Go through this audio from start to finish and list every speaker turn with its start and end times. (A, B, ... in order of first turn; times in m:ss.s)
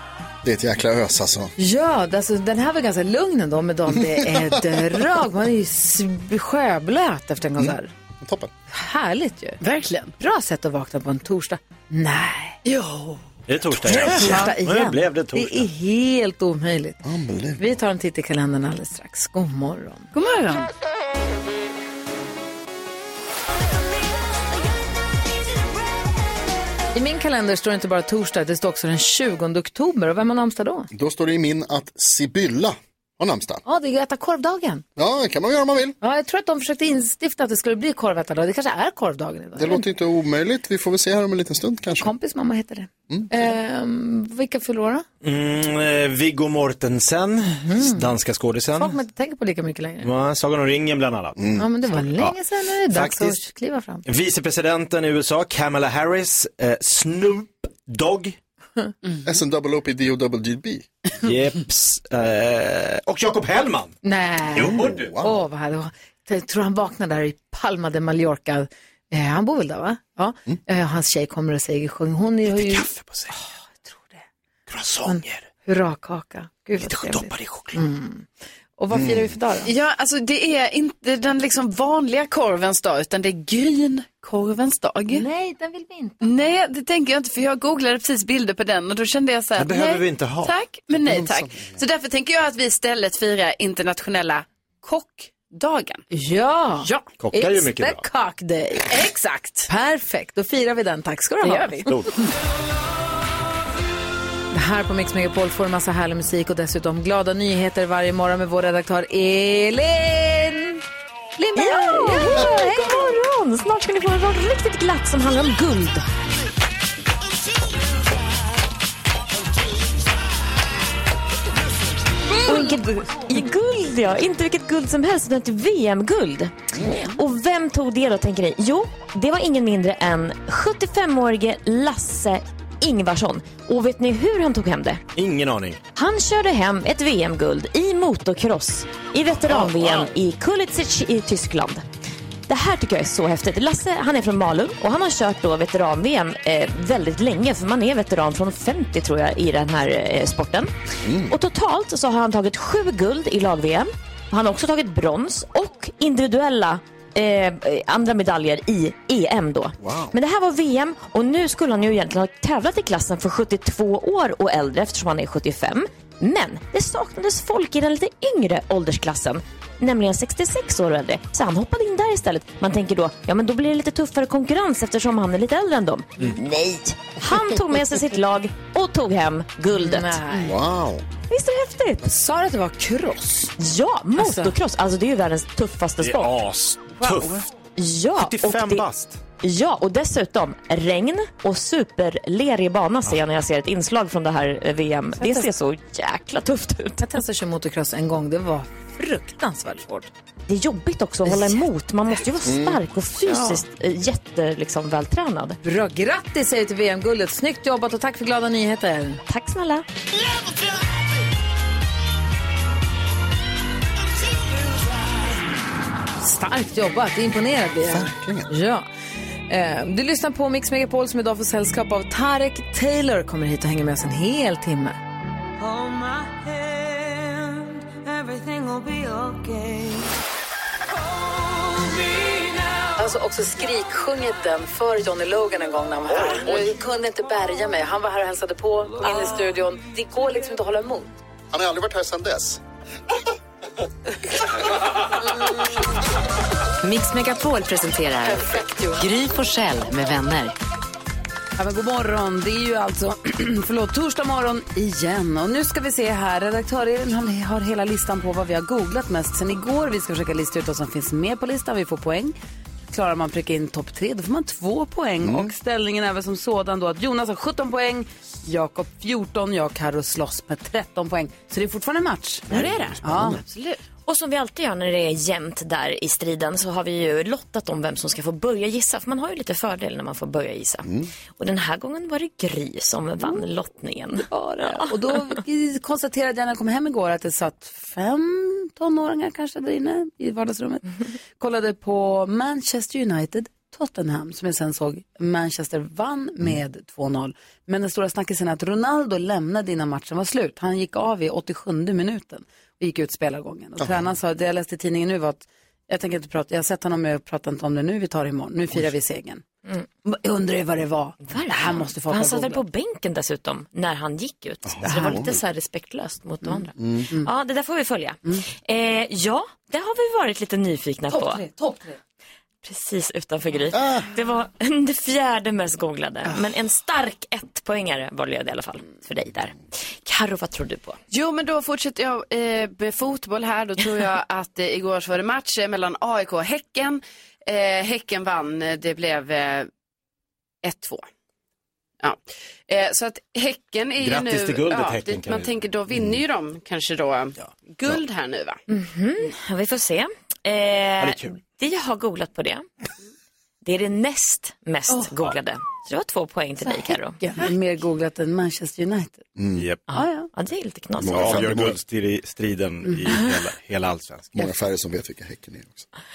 0:00.4-0:01.5 A
0:01.6-0:07.9 B
0:03.9-0:04.8 A
0:07.6-0:08.5 A
0:08.7-0:09.6 B
0:09.6-0:10.2 C
0:10.2-0:12.6 B
0:12.6-0:13.2 C
0:13.5-0:15.7 D
0:13.9-0:17.0 B
0:17.0-0:17.6 A
0:17.6-0:20.1 B
0:20.1-0:20.7 C
0:26.9-0:30.9 B
0:30.9-0:33.6 A
0:33.7-0:34.8 B
0:35.0-0:36.0 A
0:36.0-0:39.8 B
0:39.6-0:42.1 A
0:42.0-0:45.0 B
0:45.2-0:49.0 D
0:47.7-0:48.1 B
0:48.8-0:50.1 B
0:50.0-0:51.4 D
0:51.4-0:51.7 A
0:51.6-0:54.0 B
0:52.9-0:53.4 D
0:54.0-0:58.4 D
0:59.2-1:00.9 A
1:01.2-1:03.9 D
1:04.0-1:14.2 B
1:04.5-1:05.3 D
1:04.6-1:05.3 A
1:12.5-1:13.3 D
1:14.7-1:15.5 D
1:15.0-1:19.7 B
1:16.8-1:17.8 D
1:18.9-1:19.3 A
1:19.6-1:25.3 C
1:25.1-1:26.5 B
1:26.2-1:36.1 C
1:29.6-1:30.5 D
1:31.0-1:31.6 A
1:36.1-1:39.0 B
1:36.8-1:37.1 C
1:37.2-1:38.1 D
1:38.9-1:39.7 C
1:39.7-1:42.0 B
1:41.4-1:41.9 C
1:44.5-1:50.8 B
1:51.4-1:53.0 B
1:51.6-1:56.1 E
2:02.5-2:15.0 E
2:02.5-2:03.0 B
2:15.2-2:15.8 D
2:16.0-2:21.8 E
2:19.6-2:20.0 D
2:22.5-2:30.7 E
2:31.0-2:31.4 A
2:31.2-3:00.2 E
2:39.8-2:40.2 A
2:59.7-3:00.6 B
3:00.3-3:01.1 A
3:01.3-3:02.0 E
3:02.0-3:03.5 B
3:03.6-3:06.3 E
3:04.2-3:04.5 B
3:06.0-3:07.5 D
3:07.0-3:07.3 B
3:07.8-3:08.8 E
3:08.2-3:09.2 D
3:09.4-3:17.1 E
3:15.2-3:15.5 B
3:17.0-3:20.1 B
3:20.5-3:25.6 E
3:21.3-3:21.6 B
3:22.4-3:22.8 A
3:23.2-3:23.6 B
3:25.6-3:29.8 B
3:36.2-3:38.9 B
3:37.8-3:38.5 A
3:39.5-3:45.0 B
3:53.0-4:01.1 B
4:01.5-4:02.6 A
4:06.8-4:10.6 F
4:08.3-4:09.0 B
4:11.6-4:22.4 B
4:22.9-4:33.4 B
4:25.2-4:25.5 A
4:32.5-4:33.8 C
4:32.5-4:33.4 A
4:34.1-4:44.9 E
4:40.8-4:41.1 A
4:44.2-4:50.8 B
4:51.4-5:09.4 B
5:03.8-5:04.1 A
5:10.0-5:12.6 B
5:11.3-5:21.4 E
5:14.6-5:15.4 A
5:14.9-5:15.2 B
5:16.4-5:17.3 B
5:16.8-5:17.1 A
5:21.1-5:22.0 B
5:22.6-5:31.0 E
5:23.7-5:24.1 A
5:31.1-5:39.7 C
5:40.6-5:41.1 C
5:42.0-5:48.6 C
5:44.0-5:45.5 D
5:48.7-5:52.7 E
5:51.0-5:51.4 D
5:53.6-5:57.2 E
5:56.7-5:59.3 B
5:59.4-5:59.6 A
5:59.9-6:01.5 E
5:59.9-6:00.3 B
6:01.0-6:01.8 A
6:01.0-6:04.4 D
6:04.3-6:05.9 A